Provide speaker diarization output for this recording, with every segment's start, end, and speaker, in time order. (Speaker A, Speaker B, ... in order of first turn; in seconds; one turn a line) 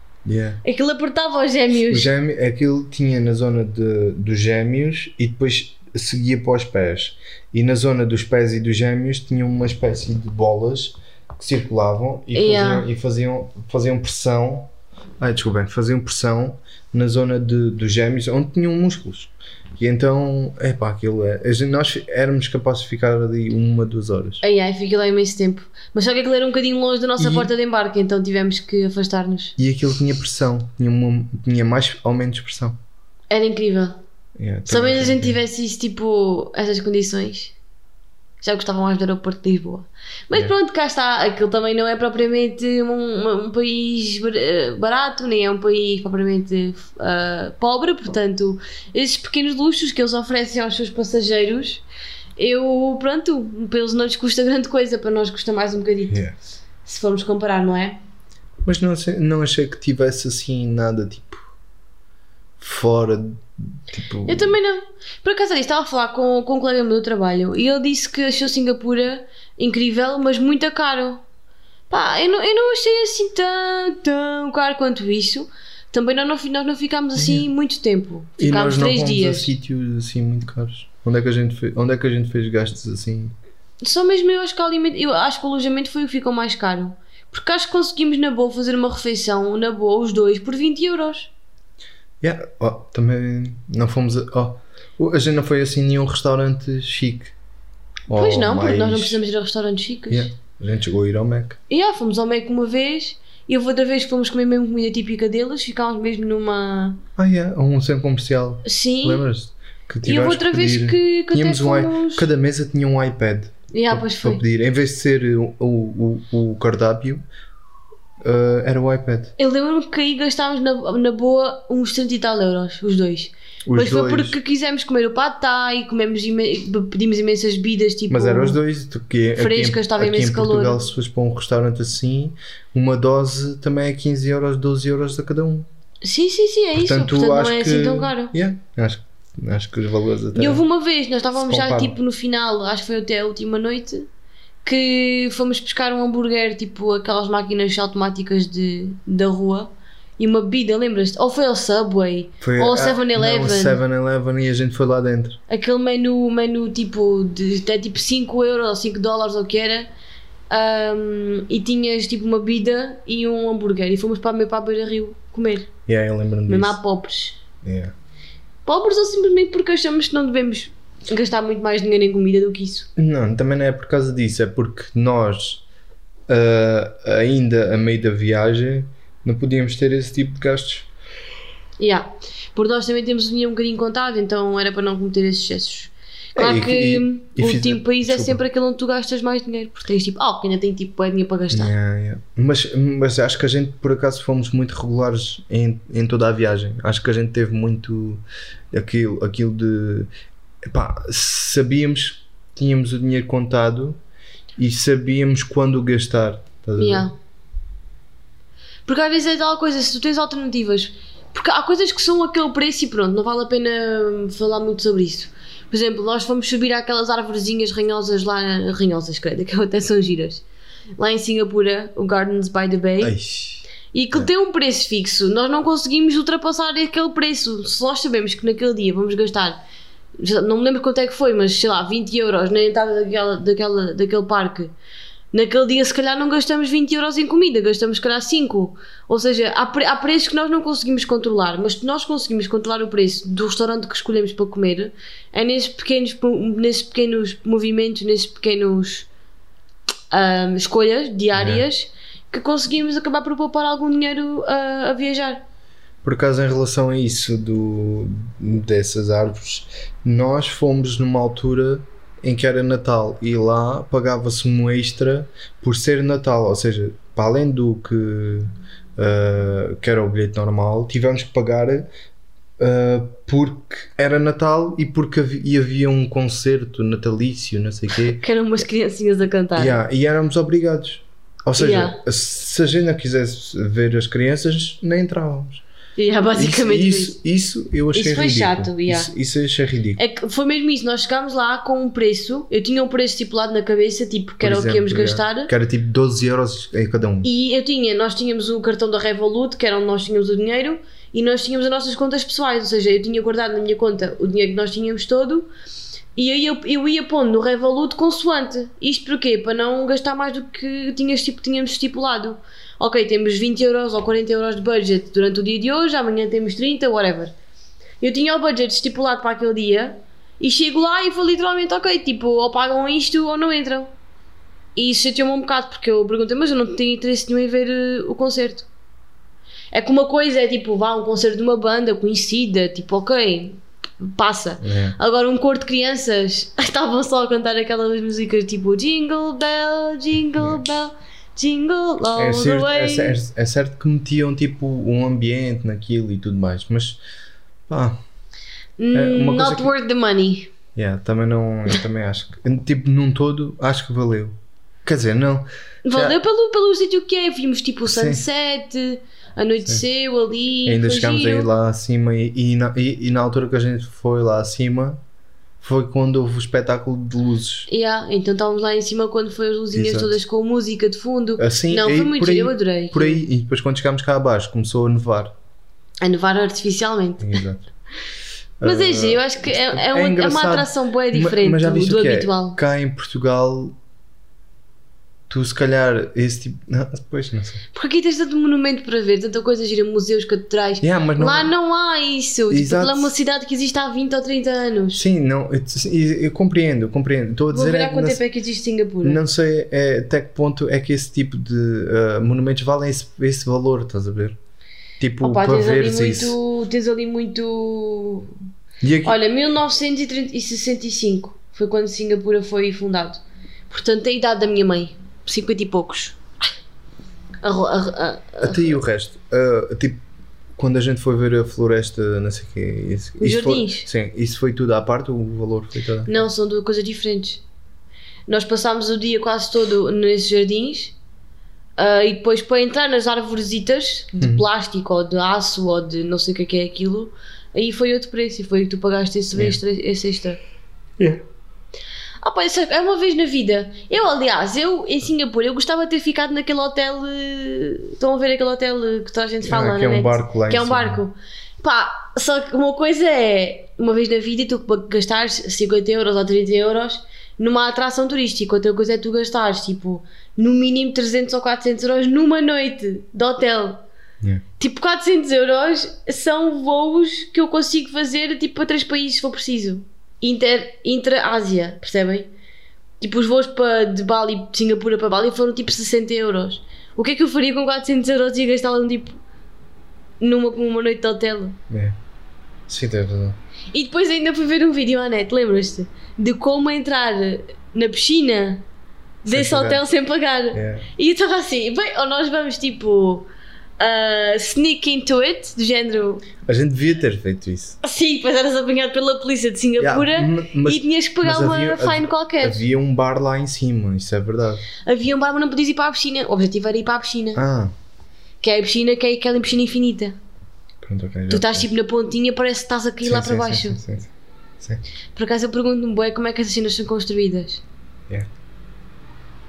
Speaker A: 0.2-0.6
Speaker B: 0.6-2.1
Speaker A: 1.8-24.4
Speaker B: 12.3-12.9
Speaker B: 24.4-29.6
Speaker A: 27.2-27.5
Speaker A: 29.6-32.8
Speaker B: 33.3-34.0
Speaker A: 34.4-35.4
Speaker B: 34.7-37.5
Speaker B: 38.4-51.8
Speaker B: 52.4-56.2
Speaker A: 56.1-56.4
Speaker B: 56.8-58.0
Speaker A: 58.6-61.5
Speaker A: 62.6-64.6
Speaker B: 64.2-71.2
Speaker B: 71.9-79.5
Speaker A: 77.2-77.5
Speaker A: 78.4-83.3
Speaker B: 83.8-91.3
Speaker A: 92.2-97.3
Speaker A: 98.1-99.2
Speaker B: 98.1-100.3
Speaker A: 100.1-101.6
Speaker B: 101.7-107.0
Speaker A: 107.2-117.2
Speaker B: 108.6-109.2
Speaker B: 110.0-112.2
Speaker B: 113.7-114.4
Speaker A: 118.2-119.3
Speaker B: 119.4-128.6
Speaker A: 123.7-124.4
Speaker A: 128.1-135.7
Speaker B: 129.4-130.8
Speaker B: 136.0-138.3
Speaker A: 136.7-140.6
Speaker B: 140.3-144.1
Speaker A: 141.4-141.9
Speaker B: 144.6-153.8
Speaker A: 152.4-155.4
Speaker B: 155.5-159.9
Speaker B: 160.5-165.7
Speaker A: 165.9-166.8
Speaker B: 166.5-167.4
Speaker A: 167.6-167.9
Speaker B: 168.7-172.9
Speaker A: 172.9-175.6
Speaker A: 176.3-180.9
Speaker B: 181.8-191.7
Speaker A: 186.3-188.4
Speaker A: 191.5-200.1
Speaker A: 200.7-204.0
Speaker A: 204.6-207.1
Speaker B: 206.8-207.1
Speaker B: 208.9-220.4
Speaker B: 221.0-223.1
Speaker A: 223.0-224.3
Speaker B: 223.9-229.6
Speaker B: 230.2-234.7
Speaker B: 235.3-249.1
Speaker B: 250.1-255.4
Speaker A: 251.3-251.7
Speaker A: 256.0-271.9
Speaker A: 272.6-278.2
Speaker B: 278.2-279.8
Speaker A: 279.5-285.6
Speaker B: 281.6-282.0
Speaker B: 286.0-287.2
Speaker A: 286.3-290.0
Speaker B: 287.9-289.1
Speaker B: 290.0-295.5
Speaker A: 294.4-297.3
Speaker B: 297.2-305.5
Speaker B: 306.1-317.3
Speaker B: 318.0-323.9
Speaker B: 324.8-328.7
Speaker B: 329.7-343.2
Speaker A: 334.6-334.9
Speaker A: 342.1-347.0
Speaker A: 347.7-348.0
Speaker B: 348.8-350.5
Speaker A: 348.9-349.7
Speaker A: 350.7-356.2
Speaker B: 355.8-361.5
Speaker A: 357.9-358.2
Speaker A: 360.6-365.0
Speaker A: 365.6-367.7
Speaker B: 367.7-373.2
Speaker A: 369.7-370.1
Speaker A: 371.4-375.3
Speaker B: 376.0-377.4
Speaker A: 377.2-377.6
Speaker A: 378.6-383.7
Speaker B: 378.6-382.6
Speaker A: 385.3-387.6
Speaker B: 387.7-395.0
Speaker A: 390.8-391.5
Speaker A: 392.5-393.1
Speaker A: 394.9-398.2
Speaker B: 397.5-399.2
Speaker A: 399.0-404.4
Speaker A: 405.0-406.4
Speaker B: 405.2-408.3
Speaker A: 408.8-409.2
Speaker B: 409.0-416.2
Speaker B: 417.4-418.8
Speaker A: 418.4-420.0
Speaker A: 420.6-426.1
Speaker B: 423.2-423.9
Speaker B: 426.1-427.4
Speaker B: 428.3-430.9
Speaker B: 431.8-440.4
Speaker A: 434.2-434.4
Speaker A: 441.0-441.2
Speaker B: 442.2-463.8
Speaker A: 449.4-451.0
Speaker B: 464.6-472.3
Speaker B: 473.0-479.2
Speaker B: 480.2-481.6
Speaker A: 481.7-482.0
Speaker A: 482.7-483.4
Speaker B: 483.7-488.6
Speaker B: 489.2-493.3
Speaker A: 489.2-489.8
Speaker A: 490.5-490.9
Speaker B: 493.8-496.2
Speaker A: 496.4-497.8
Speaker B: 497.8-502.6
Speaker A: 499.8-504.6
Speaker B: 504.8-507.4
Speaker A: 507.3-507.7
Speaker B: 508.4-510.1
Speaker A: 510.8-511.7
Speaker B: 511.3-513.8
Speaker A: 513.0-514.8
Speaker B: 515.1-517.6